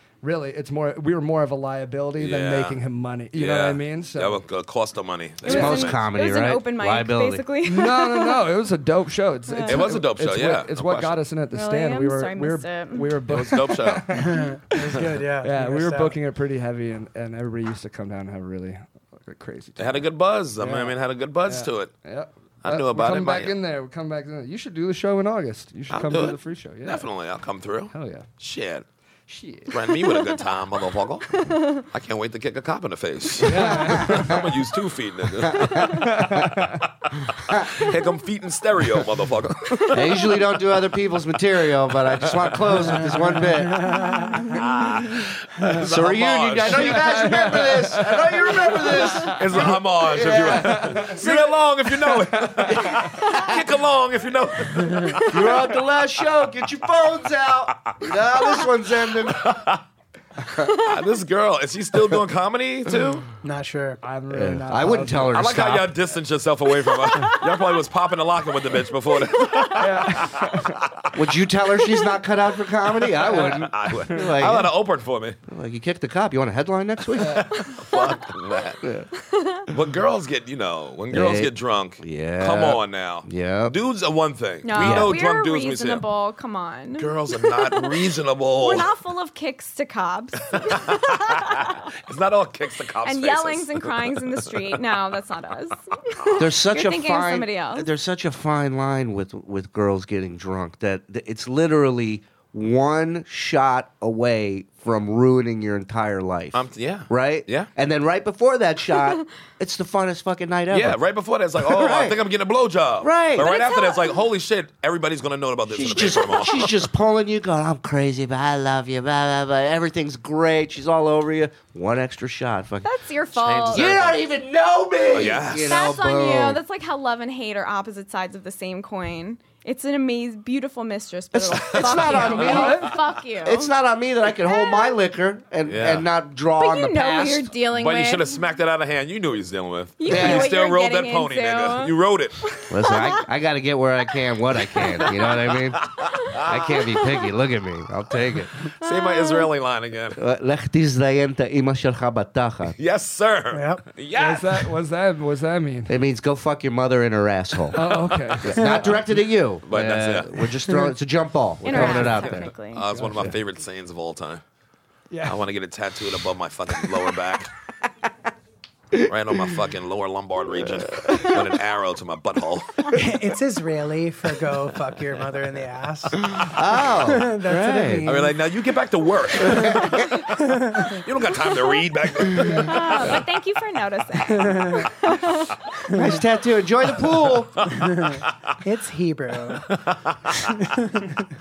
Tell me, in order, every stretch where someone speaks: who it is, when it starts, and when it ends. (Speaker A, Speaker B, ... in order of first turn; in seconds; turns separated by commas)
Speaker A: 0.2-4.4, Speaker B: 2.2-2.8, Speaker B: 3.3-6.0, Speaker C: 5.4-8.4, Speaker D: 5.4-7.5, Speaker A: 7.6-20.1, Speaker C: 9.5-9.9, Speaker B: 9.7-11.2, Speaker C: 11.5-13.2, Speaker B: 13.3-14.1, Speaker E: 14.1-16.2, Speaker B: 19.8-21.9, Speaker A: 20.6-27.1, Speaker B: 22.6-23.5, Speaker B: 25.9-28.8, Speaker A: 27.9-28.2, Speaker A: 29.3-29.9, Speaker B: 29.7-36.0, Speaker C: 31.3-31.8, Speaker A: 33.4-34.5, Speaker D: 34.0-34.4, Speaker D: 35.5-36.2, Speaker A: 36.0-36.8, Speaker B: 37.2-40.3, Speaker D: 39.9-43.9, Speaker B: 42.1-43.0, Speaker E: 43.0-44.5, Speaker B: 44.5-47.6, Speaker D: 45.8-51.5, Speaker A: 46.6-49.7, Speaker B: 49.2-55.7, Speaker A: 50.5-51.5, Speaker A: 52.0-52.7, Speaker D: 52.6-53.6, Speaker D: 55.2-59.5, Speaker B: 59.2-59.8, Speaker B: 60.7-63.3, Speaker E: 63.4-64.0, Speaker A: 64.0-65.4, Speaker D: 64.3-65.9, Speaker B: 65.3-70.9, Speaker A: 69.8-70.8, Speaker D: 71.1-74.7, Speaker B: 73.0-75.4, Speaker D: 75.5-77.5, Speaker B: 77.1-78.8, Speaker C: 77.7-78.0, Speaker D: 78.8-79.1, Speaker C: 79.2-79.7, Speaker B: 79.7-86.0, Speaker D: 81.1-83.8, Speaker C: 84.6-88.0, Speaker D: 84.7-85.2, Speaker B: 87.0-88.9, Speaker C: 88.6-91.9, Speaker B: 90.5-91.3, Speaker B: 92.0-94.7, Speaker C: 93.0-97.9, Speaker D: 96.4-111.0, Speaker B: 106.5-107.7, Speaker B: 110.7-116.9, Speaker D: 111.6-112.2, Speaker D: 113.0-113.5, Speaker C: 113.4-114.2, Speaker D: 115.7-122.9, Speaker C: 122.8-123.9, Speaker B: 123.3-124.2, Speaker D: 123.7-126.6, Speaker B: 125.1-125.7, Speaker C: 125.6-133.7, Speaker D: 131.3-137.5, Speaker B: 131.6-133.0, Speaker C: 134.4-134.9, Speaker B: 135.7-136.1, Speaker C: 136.6-138.4, Speaker B: 137.7-142.4, Speaker C: 140.0-143.2, Speaker D: 140.1-140.5, Speaker D: 142.7-148.5, Speaker C: 144.6-145.1, Speaker B: 145.2-146.9, Speaker B: 148.8-150.2, Speaker C: 148.8-149.4, Speaker D: 150.2-152.7, Speaker B: 152.8-154.7, Speaker E: 153.5-153.9, Speaker A: 154.1-155.9, Speaker D: 155.9-157.8, Speaker B: 157.7-158.9, Speaker A: 157.7-158.8, Speaker D: 158.4-162.5, Speaker B: 159.6-160.4, Speaker C: 161.6-162.8, Speaker B: 161.7-164.4, Speaker A: 162.9-163.3, Speaker A: 165.1-165.4, Speaker B: 165.2-167.5, Speaker D: 168.9-169.5, Speaker B: 169.0-173.1, Speaker D: 170.6-171.5, Speaker E: 172.9-178.3, Speaker D: 176.3-178.1, Speaker B: 178.0-183.2, Speaker D: 179.5-180.0, Speaker E: 180.4-181.0, Speaker C: 182.6-185.5, Speaker E: 184.3-184.9, Speaker E: 185.8-186.2, Speaker D: 185.9-187.6, Speaker B: 187.1-188.3, Speaker E: 187.7-189.7, Speaker B: 189.7-190.6, Speaker E: 190.8-191.1